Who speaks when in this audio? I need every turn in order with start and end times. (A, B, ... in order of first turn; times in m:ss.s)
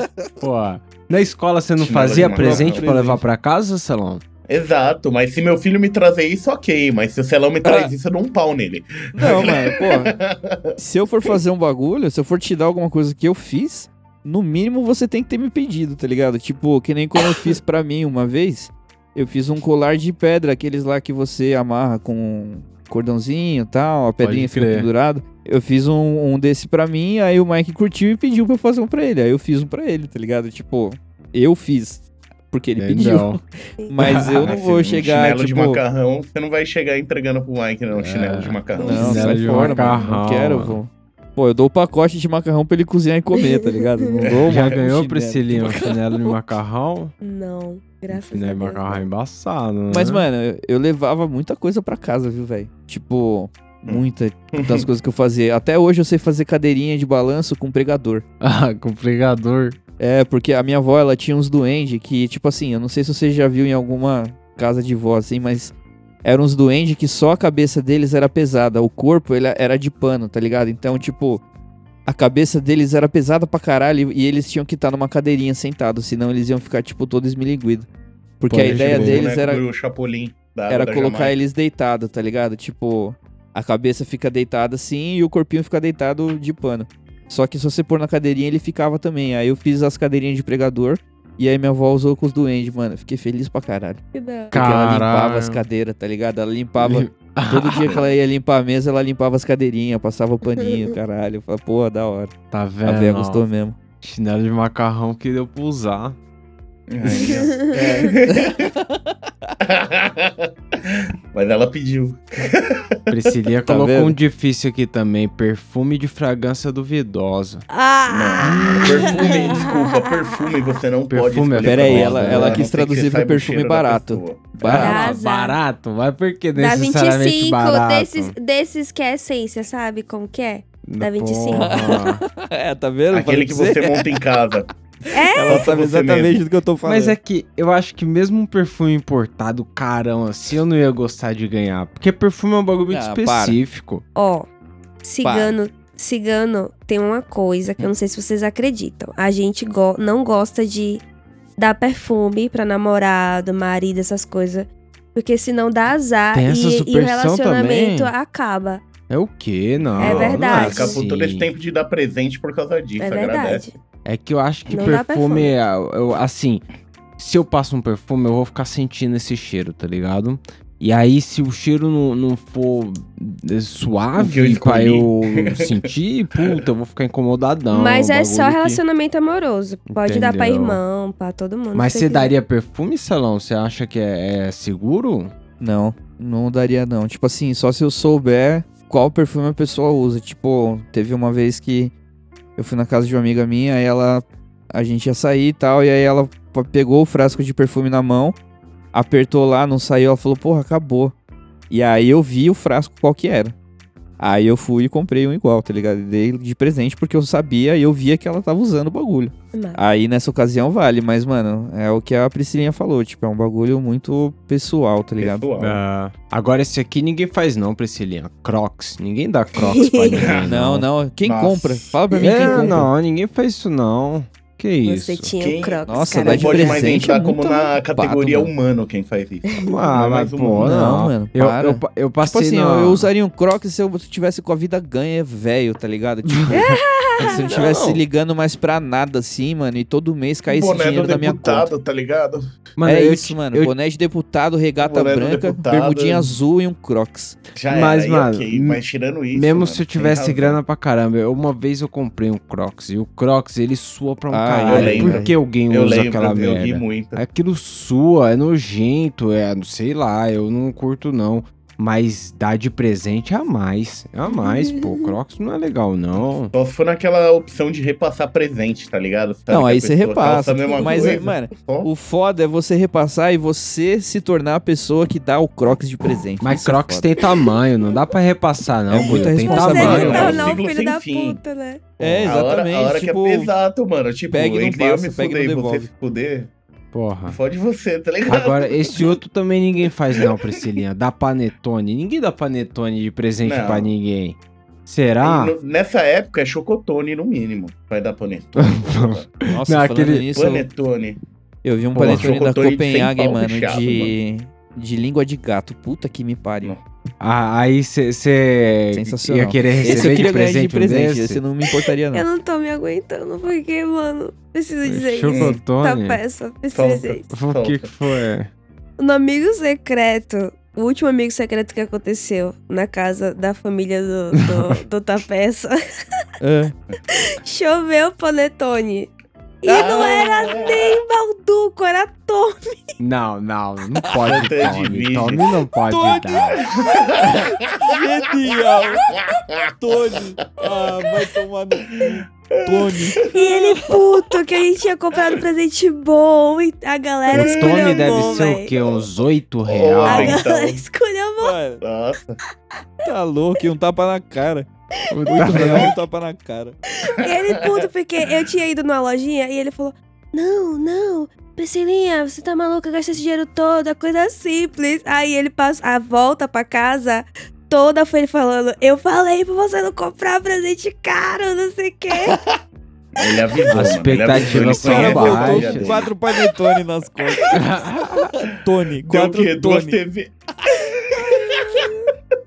0:00.4-0:04.2 A
0:01.8-0:02.9 B
0:02.4-0:03.2 C
0:04.5-0:10.8 B
0:07.6-0:07.9 C
0:09.2-0:10.1 C
0:10.8-0:35.8 C
0:24.2-0:24.9 A
0:32.8-0:33.4 A
0:34.0-0:34.6 A
0:34.4-0:39.4 B
0:37.9-0:40.8 A
0:38.8-0:40.1 D
0:38.8-0:46.3 C
0:43.4-0:44.1 D
0:44.2-0:44.6 B
0:44.5-0:47.1 A
0:47.2-0:49.1 D
0:48.1-0:50.2 A
0:49.9-0:58.2 C
0:53.9-0:54.9 B
0:58.4-0:59.8 A
1:00.0-1:11.4 C
1:12.1-1:17.9 C
1:18.4-1:19.6 C
1:18.5-1:19.3 A
1:18.6-1:21.4 B
1:20.7-1:42.3 C
1:34.1-1:34.6 D
1:34.5-1:35.6 A
1:36.8-1:38.0 A
1:37.8-1:38.1 B
1:42.5-1:43.4 A
1:42.8-1:43.8 C
1:44.0-1:46.2 A
1:46.9-1:48.7 B
1:47.1-1:48.0 D
1:47.7-1:49.5 C
1:49.6-1:53.0 B
1:53.1-1:57.6 A
1:53.7-1:54.2 C
1:57.7-2:00.2 D
1:58.1-2:04.5 B
1:58.4-1:59.3 A
2:01.1-2:02.7 A
2:01.6-2:05.1 C
2:04.6-2:08.4 A
2:04.7-2:05.6 D
2:06.6-2:12.0 D
2:10.9-2:12.2 A
2:11.5-2:14.1 C
2:13.1-2:14.7 B
2:15.1-2:15.6 D
2:15.3-2:17.2 C
2:15.4-2:16.4 B
2:16.8-2:24.0 A
2:22.9-2:23.6 C
2:24.2-2:24.5 D
2:25.0-2:31.0 D
2:25.2-2:25.6 C
2:31.6-2:38.8 D
2:36.3-2:38.1 A
2:39.1-2:41.5 A
2:39.8-2:43.7 B
2:40.0-2:41.0 D
2:43.0-2:43.7 D
2:44.0-2:46.6 A
2:44.7-2:45.5 D
2:47.2-2:58.8 A
2:54.2-2:55.8 B
2:57.7-3:02.3 D
2:59.9-3:00.8 A
3:01.7-3:05.3 A
3:05.6-3:11.9 C
3:12.6-3:18.4 C
3:18.9-3:21.1 C
3:21.7-3:23.5 C
3:24.2-3:35.5 C
3:29.5-3:29.8 D
3:35.2-3:35.8 B
3:35.6-3:40.9 A
3:39.6-3:40.2 D
3:40.2-3:40.5 B
3:40.5-3:42.8 C
3:41.2-3:42.0 B
3:42.2-3:45.3 A
3:44.8-3:47.0 D
3:45.4-3:50.8 B
3:45.9-3:48.5 C
3:49.6-3:53.1 A
3:50.6-3:56.6 C
3:56.3-3:58.0 A
3:56.5-3:57.5 D
3:57.2-4:01.7 C
4:00.5-4:02.5 B
4:02.8-4:03.7 A
4:02.8-4:07.4 C
4:04.8-4:06.4 B
4:07.6-4:10.6 B
4:07.7-4:08.8 A
4:09.3-4:26.5 A
4:14.3-4:15.3 C
4:14.7-4:17.2 B
4:24.3-4:25.1 D
4:26.5-4:31.9 B
4:29.5-4:37.1 C
4:30.7-4:31.2 D
4:36.4-4:40.6 A
4:38.9-4:40.4 C
4:39.4-4:41.8 D
4:39.7-4:41.4 B
4:42.0-4:43.5 C
4:42.0-4:46.5 B
4:44.3-4:45.9 C
4:46.9-4:47.4 A
4:47.3-4:49.2 B
4:48.3-4:55.5 A
4:53.4-4:53.9 B
4:55.2-4:59.3 B
4:58.6-5:00.3 A
4:59.5-5:00.7 C
5:00.3-5:01.2 B
5:01.6-5:06.7 C
5:02.0-5:02.3 A
5:02.0-5:04.1 B
5:07.2-5:11.4 A
5:08.9-5:12.3 C
5:12.1-5:17.3 D
5:14.8-5:16.2 A
5:15.3-5:15.6 B
5:16.7-5:17.9 B
5:17.3-5:18.5 A
5:19.0-5:25.8 D
5:24.4-5:24.8 A
5:26.4-5:26.7 C
5:27.3-5:29.1 D
5:29.6-5:32.9 D
5:29.7-5:31.0 B
5:33.0-5:36.7 A
5:34.2-5:35.5 B
5:35.9-5:36.6 C
5:36.6-5:37.5 B
5:37.2-5:39.1 C
5:39.0-5:39.7 B
5:39.8-5:43.2 C
5:42.0-5:44.0 B
5:43.3-5:48.7 D
5:47.3-5:50.4 A
5:47.3-5:49.0 B
5:49.6-5:50.8 B
5:50.0-5:51.6 D
5:51.4-5:51.8 C
5:51.8-5:52.4 B
5:53.0-5:54.7 C
5:55.1-5:55.9 A
5:55.3-5:56.8 C
5:57.0-6:12.4 D
5:57.5-5:57.8 B
6:13.2-6:16.1 B
6:13.7-6:16.0 A
6:14.6-6:17.6 C
6:17.5-6:18.4 A
6:18.5-6:20.0 C
6:19.0-6:21.9 B
6:21.1-6:22.1 D